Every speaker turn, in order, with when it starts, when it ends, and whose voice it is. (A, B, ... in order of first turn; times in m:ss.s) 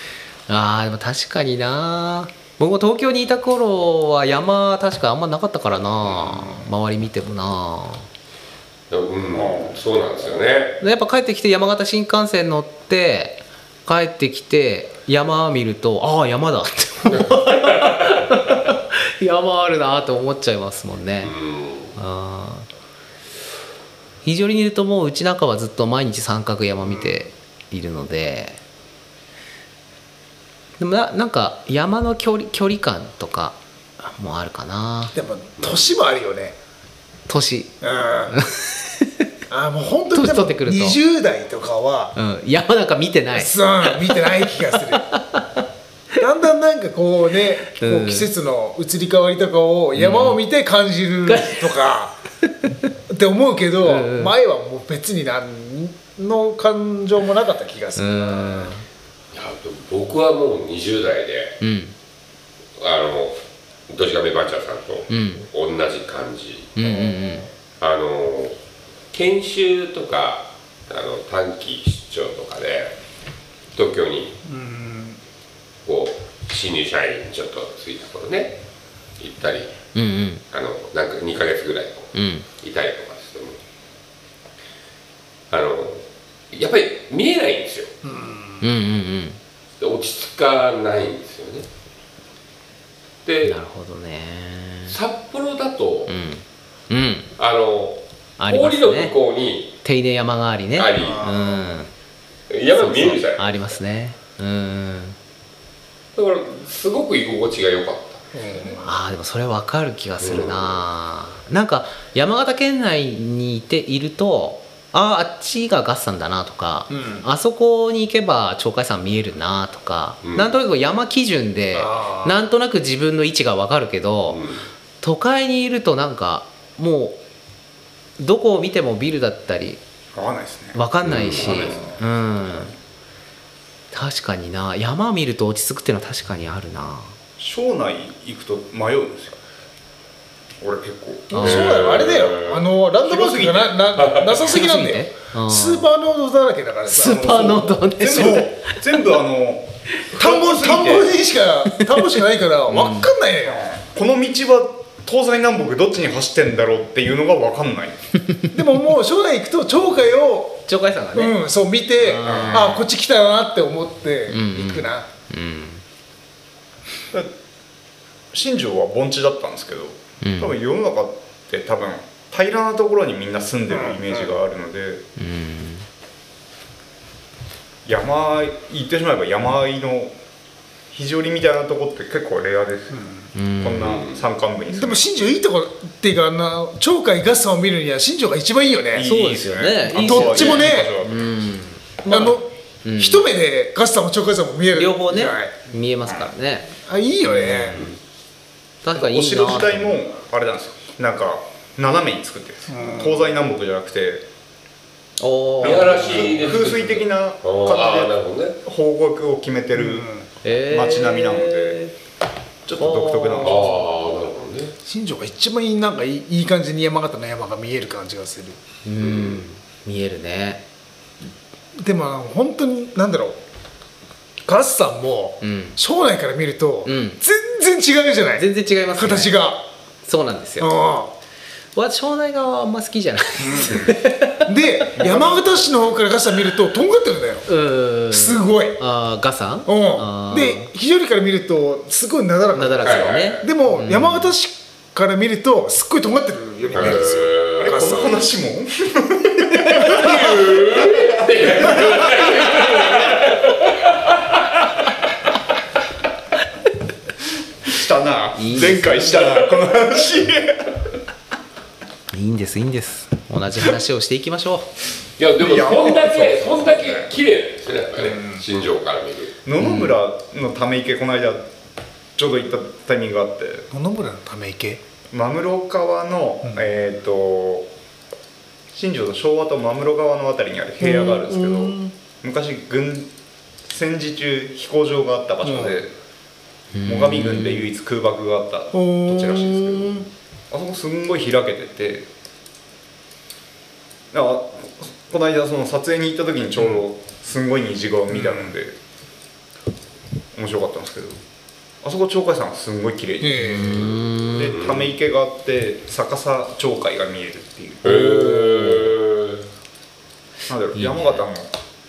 0:00.5-0:08.1 A
0:06.2-0:06.5 B
0:08.9-0:10.8 B
0:10.8-0:21.3 A
0:17.2-0:18.2 B
0:21.2-0:22.0 B
0:22.0-0:22.7 A
0:24.2-0:28.6 A
0:30.8-0:35.1 A
0:35.1-0:36.6 C
0:37.3-0:39.3 A
0:37.8-0:38.5 C
0:39.5-0:42.2 C
0:40.1-0:41.0 A
0:42.1-0:44.0 A
0:43.4-0:45.2 C
0:45.1-0:45.4 A
0:46.2-0:52.1 C
0:47.7-0:48.3 A
0:49.9-0:50.4 A
0:51.3-0:51.6 A
0:53.1-0:58.8 C
0:53.8-0:54.3 A
0:58.0-0:58.8 A
0:59.3-1:01.6 B
1:01.6-1:01.9 A
1:02.8-1:06.8 B
1:05.1-1:05.4 A
1:06.8-1:07.5 A
1:07.8-1:08.6 B
1:09.1-1:13.0 B
1:13.8-1:14.4 B
1:14.4-1:15.2 C
1:15.9-1:18.6 B
1:19.2-1:19.7 B
1:19.9-1:20.4 A
1:20.5-1:23.6 B
1:22.1-1:22.5 A
1:25.5-1:27.9 B
1:28.0-1:28.6 C
1:28.6-1:29.4 A
1:29.8-1:31.7 B
1:33.2-1:33.6 B
1:33.4-1:35.0 A
1:34.9-1:36.1 B
1:36.1-1:37.3 A
1:37.4-1:39.8 B
1:38.4-1:39.2 A
1:39.8-1:41.9 A
1:40.8-1:41.4 B
1:41.0-1:41.8 C
1:42.5-1:43.7 B
1:42.8-1:45.2 A
1:46.2-1:48.2 B
1:48.3-1:48.9 C
1:48.8-2:04.4 A
1:50.2-1:50.8 B
1:56.9-1:57.3 C
2:00.2-2:00.5 B
2:01.8-2:02.4 C
2:04.3-2:04.6 B
2:05.0-2:07.2 A
2:08.2-2:09.8 A
2:10.1-2:10.8 D
2:10.7-2:12.7 A
2:11.0-2:11.8 B
2:11.3-2:12.0 D
2:13.9-2:17.1 A
2:17.4-2:19.4 D
2:20.6-2:21.6 D
2:21.3-2:28.4 C
2:21.3-2:21.8 A
2:21.4-2:22.7 B
2:23.0-2:23.8 D
2:24.0-2:24.4 B
2:24.4-2:25.9 A
2:26.9-2:28.7 A
2:27.0-2:31.2 D
2:30.2-2:33.7 C
2:31.7-2:32.0 A
2:32.7-2:33.0 A
2:33.4-2:38.0 D
2:38.5-2:45.1 C
2:40.7-2:41.4 A
2:42.0-2:42.8 A
2:42.2-2:42.8 D
2:44.3-2:45.8 A
2:48.3-2:55.0 D
2:50.2-2:50.6 A
2:53.7-2:54.0 C
2:55.2-2:55.9 A
2:57.8-3:00.1 D
3:00.9-3:05.4 D
3:02.9-3:03.2 C
3:03.3-3:04.0 A
3:03.8-3:04.2 B
3:04.7-3:09.1 C
3:08.9-3:11.3 D
3:09.0-3:13.3 A
3:09.9-3:11.0 C
3:12.1-3:15.5 C
3:14.7-3:17.9 A
3:16.8-3:17.9 C
3:18.8-3:20.0 A
3:18.9-3:24.2 D
3:22.7-3:23.2 C
3:25.2-3:26.4 A
3:25.6-3:30.1 D
3:25.6-3:28.6 B
3:29.7-3:30.3 C
3:30.4-3:31.9 A
3:30.7-3:31.8 D
3:32.6-3:33.8 D
3:32.8-3:33.7 A
3:33.4-3:34.8 B
3:34.9-3:38.6 C
3:38.8-3:40.6 A
3:39.0-3:39.4 B
3:41.8-3:43.4 C
3:44.4-3:49.6 C
3:45.4-3:45.8 A
3:46.8-3:47.2 A
3:48.4-3:49.3 A
3:50.0-3:50.7 A
3:50.6-3:51.1 C
3:51.8-3:54.5 A
3:53.4-3:53.8 C
3:54.4-3:57.5 C
3:55.0-3:55.9 D
3:57.5-4:00.7 A
3:58.1-3:58.8 C
3:59.6-4:08.3 C
4:02.5-4:04.3 A
4:02.8-4:03.4 B
4:06.7-4:07.0 D
4:06.7-4:08.1 B
4:07.6-4:12.2 D
4:09.8-4:10.4 C
4:09.8-4:14.4 B
4:17.6-4:20.8 D
4:18.4-4:19.5 A
4:22.1-4:24.7 A
4:25.2-4:29.4 B
4:25.4-4:27.1 D
4:28.0-4:28.4 C
4:29.4-4:31.5 D
4:29.6-4:30.0 A
4:32.2-4:33.7 D
4:33.7-4:34.8 C
4:35.1-4:37.7 D
4:38.7-4:43.1 D
4:40.8-4:41.9 C
4:43.6-4:45.9 D
4:45.4-4:45.8 C
4:46.7-4:47.7 A
4:46.8-4:52.1 D
4:48.7-4:50.1 C
4:54.1-4:58.8 D
4:58.1-4:58.4 C
5:00.3-5:01.2 D
5:01.8-5:08.5 D
5:03.2-5:03.9 C
5:03.4-5:04.6 A
5:04.5-5:04.9 B
5:07.8-5:09.4 B
5:07.8-5:08.9 A
5:10.5-5:11.5 D
5:10.8-5:11.3 A